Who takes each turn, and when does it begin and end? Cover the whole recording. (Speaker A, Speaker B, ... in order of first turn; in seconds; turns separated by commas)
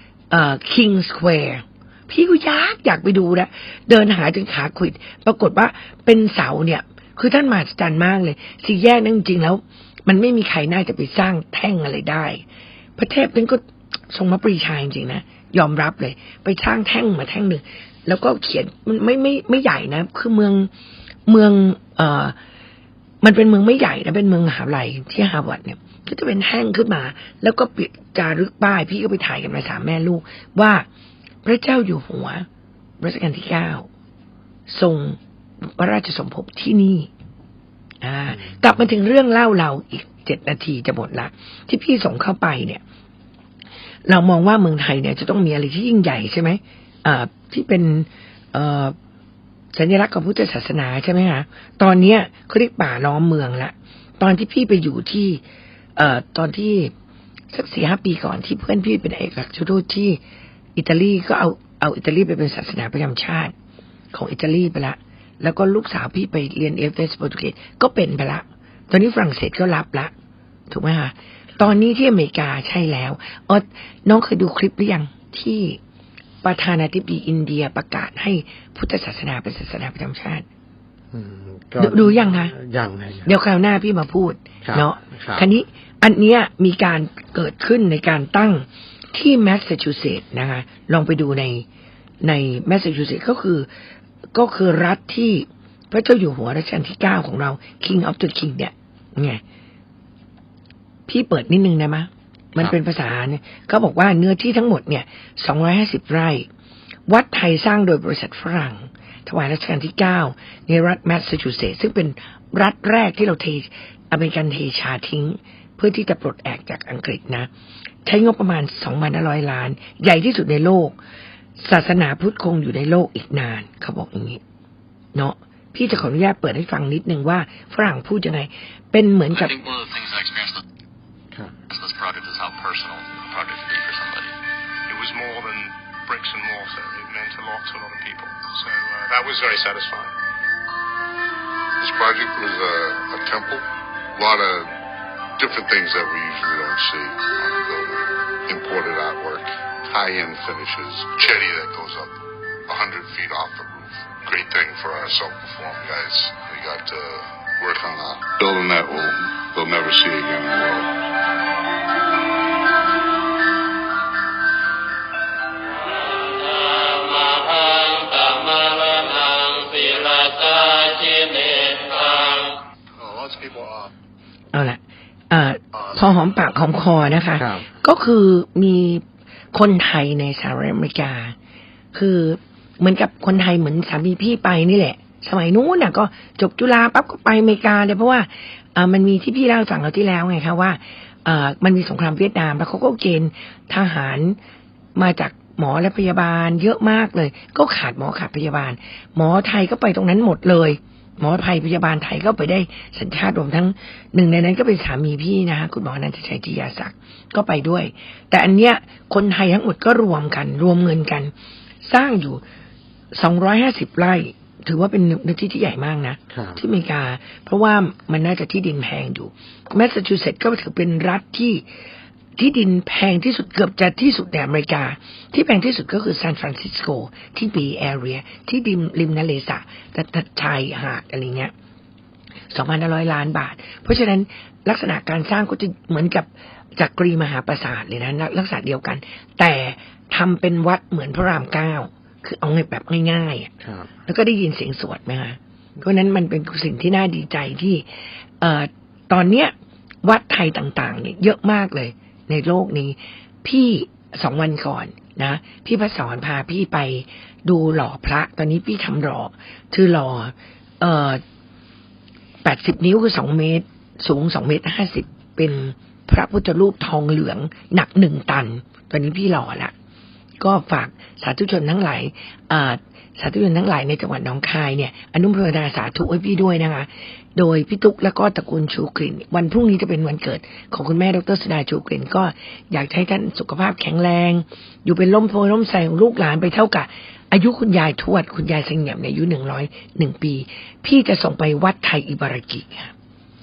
Speaker A: 0.3-12.4, Speaker A: 13.0-20.7, Speaker A: 21.3-22.4, Speaker A: 23.2-30.9, Speaker A: 31.4-32.5, Speaker A: 33.0-33.9, Speaker A: 34.7-35.2, Speaker A: 35.8-37.1, Speaker A: 38.0-42.8, Speaker A: 44.1-49.0, Speaker A: 49.7-55.4, Speaker A: 56.0-56.9, Speaker A: 57.5-60.2, Speaker A: 60.8-63.5, Speaker A: 64.1-70.1, Speaker A: 70.7-75.8, Speaker A: 76.4-80.5, Speaker B: 81.1-83.3, Speaker A: 81.8-82.5, Speaker A: 83.3-91.7, Speaker B: 84.6-85.5, Speaker A: 92.2-93.7, Speaker A: 94.3-99.4, Speaker A: 101.1-106.5, Speaker A: 107.1-117.5, Speaker A: 118.0-121.0, Speaker A: 121.6-124.4, Speaker A: 125.1-129.5, Speaker C: 129.3-130.6, Speaker C: 131.7-134.3, Speaker D: 134.9-140.1, Speaker E: 141.8-143.7, Speaker E: 144.2-144.7, Speaker E: 145.4-152.2, Speaker E: 152.7-160.9, Speaker C: 169.8-171.2, Speaker E: 173.0-173.9, Speaker A: 174.5-181.3, Speaker B: 177.4-177.7, Speaker A: 181.9-194.4, Speaker A: 195.0-211.3, Speaker A: 211.8-212.4, Speaker A: 213.1-221.6, Speaker B: 216.3-216.6, Speaker A: 222.4-231.5, Speaker A: 232.5-243.5, Speaker B: 243.6-243.9, Speaker A: 244.1-247.8, Speaker A: 248.4-261.2, Speaker A: 262.4-269.7, Speaker A: 270.4-292.9